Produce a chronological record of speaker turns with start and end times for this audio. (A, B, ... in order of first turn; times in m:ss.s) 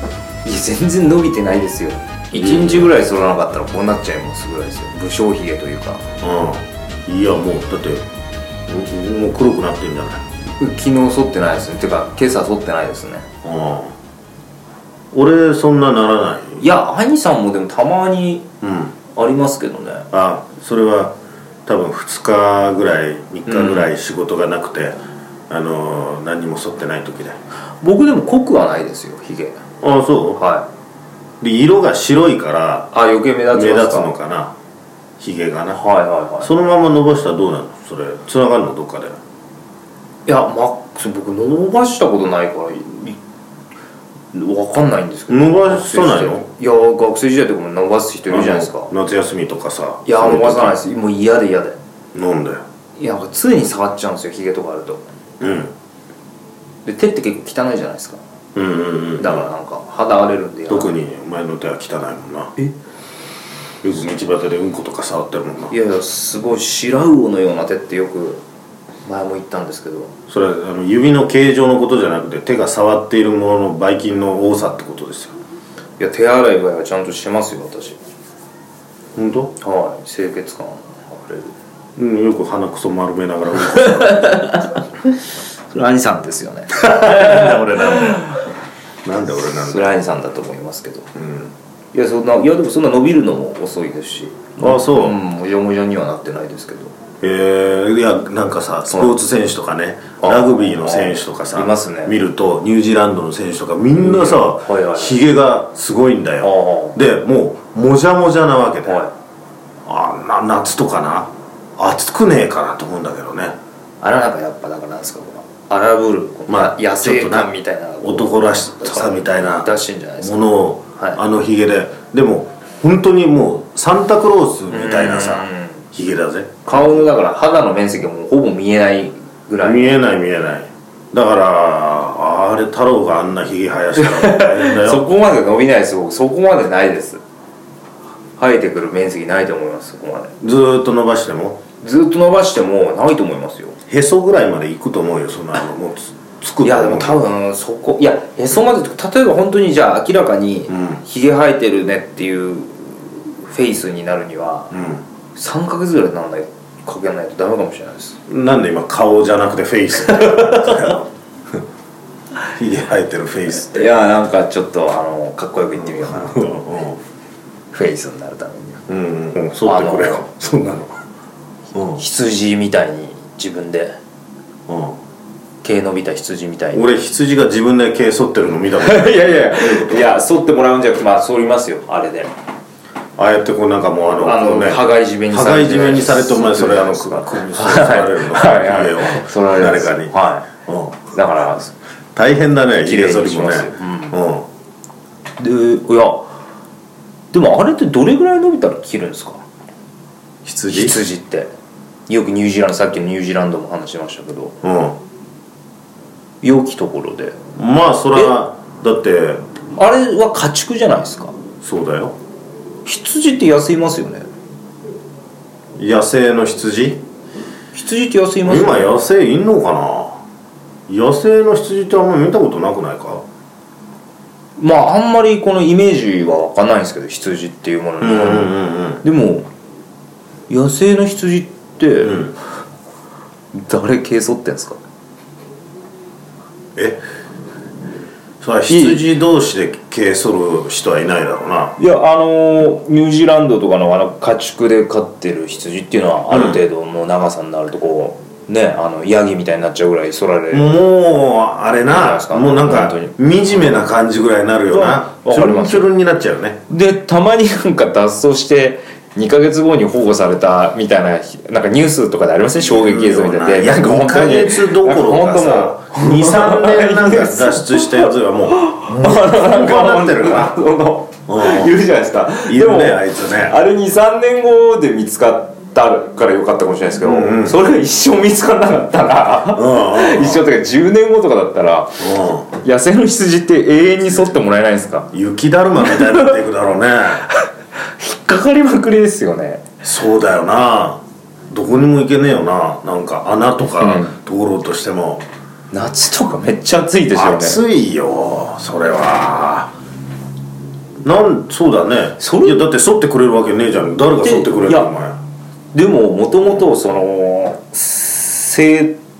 0:00.4-0:06.0 A
0:02.3-0:02.9 B
0:06.2-0:08.0 B
0:08.7-0:10.2 B
0:10.6-0:13.3 A
0:13.4-0:13.9 B
0:15.1-0:16.6 B
0:16.6-0:18.5 A
0:18.6-0:18.9 B
0:19.1-0:20.1 A
0:20.1-0:21.1 B
0:21.6-0:25.0 B
0:23.5-0:23.9 A
0:25.5-0:27.4 B
0:27.8-0:29.6 A
0:29.8-0:30.4 B
0:30.4-0:30.7 A
0:31.4-0:32.9 B
0:32.9-0:34.1 A
0:33.5-0:34.5 B
0:35.2-0:35.8 B
0:35.7-0:36.5 A
0:36.4-0:39.2 B
0:40.2-0:43.2 A
0:44.3-0:48.9 A
0:45.3-0:46.4 B
0:48.3-0:50.8 B
0:50.0-0:51.8 A
0:52.1-0:52.6 B
0:53.0-0:55.0 A
0:55.4-0:55.7 B
0:56.8-0:58.2 A
0:58.5-0:59.5 B
0:59.2-1:00.9 A
1:00.7-1:02.5 B
1:03.8-1:05.7 B
1:05.7-1:08.4 A
1:09.0-1:10.1 A
1:10.3-1:15.3 B
1:16.0-1:18.0 A
1:19.2-1:19.5 B
1:19.6-1:21.5 A
1:22.0-1:24.5 B
1:23.7-1:25.1 A
1:25.7-1:28.4 A
1:26.8-1:28.3 B
1:29.0-1:30.0 B
1:29.4-1:31.1 A
1:31.1-1:31.5 B
1:31.9-1:36.9 A
1:34.6-1:35.2 B
1:37.2-1:49.0 B
1:40.2-1:42.2 A
1:44.0-1:45.2 A
1:46.4-1:47.0 A
1:48.8-1:49.1 A
1:49.8-1:53.6 B
1:54.0-2:01.2 A
1:56.5-1:57.5 B
1:58.0-1:59.7 B
2:00.2-2:07.0 B
2:04.7-2:05.8 A
2:06.6-2:10.0 A
2:09.6-2:15.0 B
2:14.0-2:17.2 A
2:18.4-2:20.3 A
2:20.4-2:21.6 B
2:21.8-2:23.8 A
2:23.9-2:27.2 B
2:26.6-2:34.8 A
2:30.7-2:31.0 B
2:34.7-2:35.0 B
2:35.4-2:38.2 A
2:38.3-2:41.6 B
2:40.0-2:41.0 A
2:42.5-2:43.9 B
2:43.5-2:46.6 A
2:45.8-2:47.0 B
2:47.7-2:48.8 A
2:48.9-2:51.0 B
2:49.6-2:50.2 A
2:51.7-2:52.0 B
2:51.9-2:54.0 A
2:54.7-2:55.0 B
2:55.6-2:56.8 A
2:56.7-3:00.1 B
2:58.8-3:02.3 A
3:03.2-3:11.1 B
3:04.2-3:10.5 A
3:11.1-3:11.7 A
3:12.1-3:14.5 B
3:12.8-3:14.2 A
3:15.4-3:16.3 A
3:17.3-3:19.4 A
3:20.4-3:21.0 B
3:20.7-3:21.5 A
3:22.1-3:24.6 A
3:24.6-3:25.0 B
3:26.4-3:27.4 A
3:27.6-3:29.4 B
3:29.8-3:31.4 A
3:31.6-3:32.2 B
3:32.8-3:34.3 A
3:35.8-3:37.0 B
3:37.7-3:38.9 A
3:38.4-3:40.2 B
3:40.9-3:43.2 B
3:44.6-3:49.5 A
3:48.0-3:49.0 B
3:50.5-3:52.3 A
3:52.0-3:52.3 B
3:53.5-3:54.8 A
3:56.8-3:57.0 B
3:58.4-4:01.8 B
3:58.7-3:59.0 A
4:01.8-4:10.7 A
4:06.3-4:06.6 B
4:10.5-4:16.6 B
4:11.9-4:13.8 A
4:14.7-4:15.9 A
4:16.7-4:45.1 A
4:22.6-4:30.6 B
4:31.3-4:31.8 B
4:32.4-4:33.6 B
4:37.0-4:37.6 B
4:39.5-4:40.4 B
4:42.0-4:42.5 B
4:45.1-4:47.2 B
4:45.8-4:46.3 A
4:48.0-4:49.6 A
4:49.8-4:55.2 B
4:53.8-4:54.1 A
4:55.7-4:57.6 A
4:57.1-4:59.7 B
5:01.0-5:05.2 B
5:02.2-5:02.7 A
5:04.2-5:04.9 A
5:05.7-5:09.0 A